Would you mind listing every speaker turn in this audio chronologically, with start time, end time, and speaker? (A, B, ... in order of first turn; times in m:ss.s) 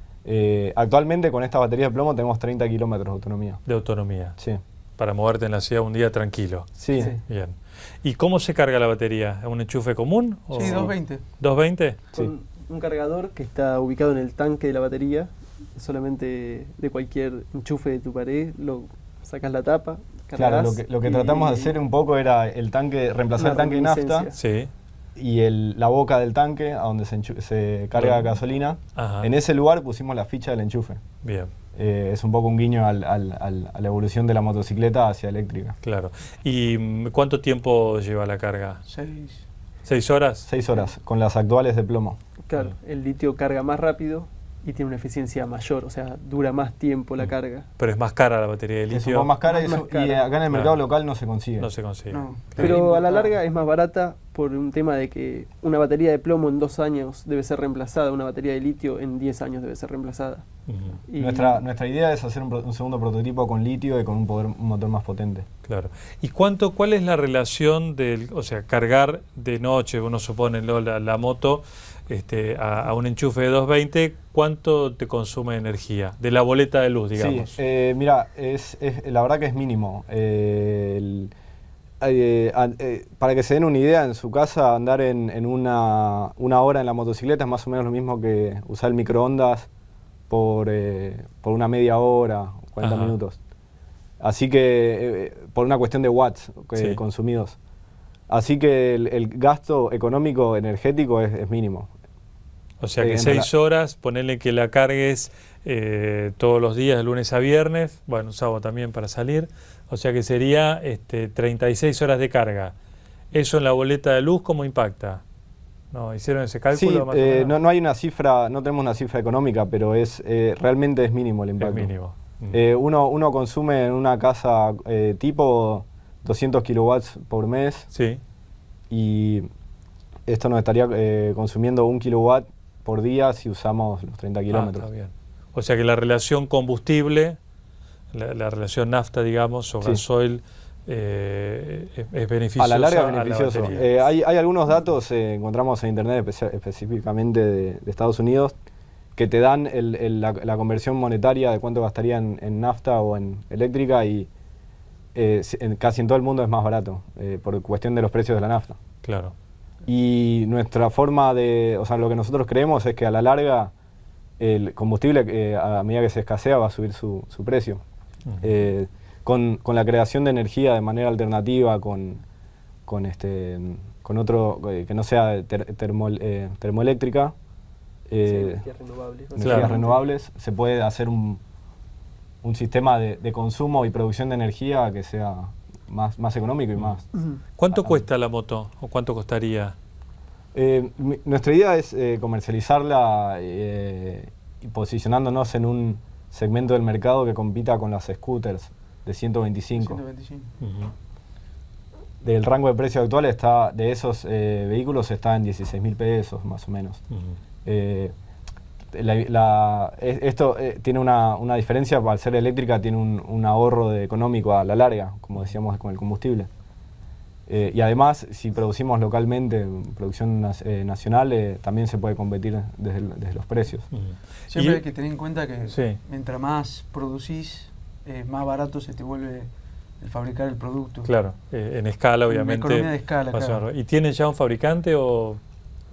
0:00.2-0:03.6 A
0:03.7-0:04.4 B
0:05.0-0:12.0 B
0:06.8-0:07.1 A
0:07.0-0:07.2 C
0:10.5-0:11.2 D
0:12.1-0:21.8 C
0:20.4-0:24.3 A
0:23.4-0:24.4 C
0:24.4-0:24.7 B
0:25.2-0:31.0 A
0:28.0-0:28.4 B
0:29.0-0:29.3 B
0:31.2-0:31.5 B
0:31.8-0:35.8 A
0:35.8-0:38.8 B
0:38.9-0:39.4 D
0:39.8-0:40.5 B
0:40.5-0:42.2 A
0:42.5-0:47.7 C
0:47.2-0:49.3 B
0:48.9-0:51.7 A
0:49.4-0:50.3 C
0:50.5-0:50.8 B
0:51.6-0:52.8 B
0:52.1-0:53.4 D
0:52.6-1:00.4 C
1:00.7-1:01.0 B
1:01.1-1:01.6 C
1:01.2-1:05.5 A
1:05.7-1:17.6 B
1:17.2-1:21.3 A
1:22.0-1:29.7 A
1:30.3-1:33.4 A
1:32.8-1:33.2 B
1:34.2-1:37.6 A
1:38.3-1:41.9 A
1:42.8-1:52.8 B
1:43.0-1:43.5 A
1:53.3-1:55.2 B
1:55.9-1:57.6 B
1:56.7-2:01.9 A
2:01.6-2:02.6 B
2:02.5-2:07.9 A
2:07.9-2:08.2 B
2:08.9-2:09.5 A
2:10.3-2:14.9 A
2:14.5-2:17.4 B
2:18.1-2:24.1 B
2:22.6-2:28.6 A
2:29.2-2:34.3 A
2:35.2-2:38.8 A
2:39.0-2:39.3 B
2:39.9-2:43.7 A
2:44.4-2:47.8 A
2:48.3-2:48.5 B
2:48.4-2:52.2 A
2:52.9-2:57.3 A
2:58.1-2:58.6 A
2:58.3-3:00.1 C
2:59.3-3:01.4 A
2:59.4-2:59.7 B
3:02.4-3:07.1 A
3:07.1-3:07.4 C
3:07.6-3:09.8 B
3:07.7-3:08.0 A
3:10.5-3:20.0 A
3:19.8-3:20.5 D
3:20.6-3:20.9 B
3:22.2-3:27.0 A
3:27.1-3:27.4 B
3:27.6-3:28.1 A
3:28.9-3:36.5 A
3:37.5-3:43.9 A
3:43.9-3:44.8 B
3:44.5-3:51.1 D
3:45.7-3:46.0 B
3:51.0-3:55.4 B
3:52.3-3:53.6 D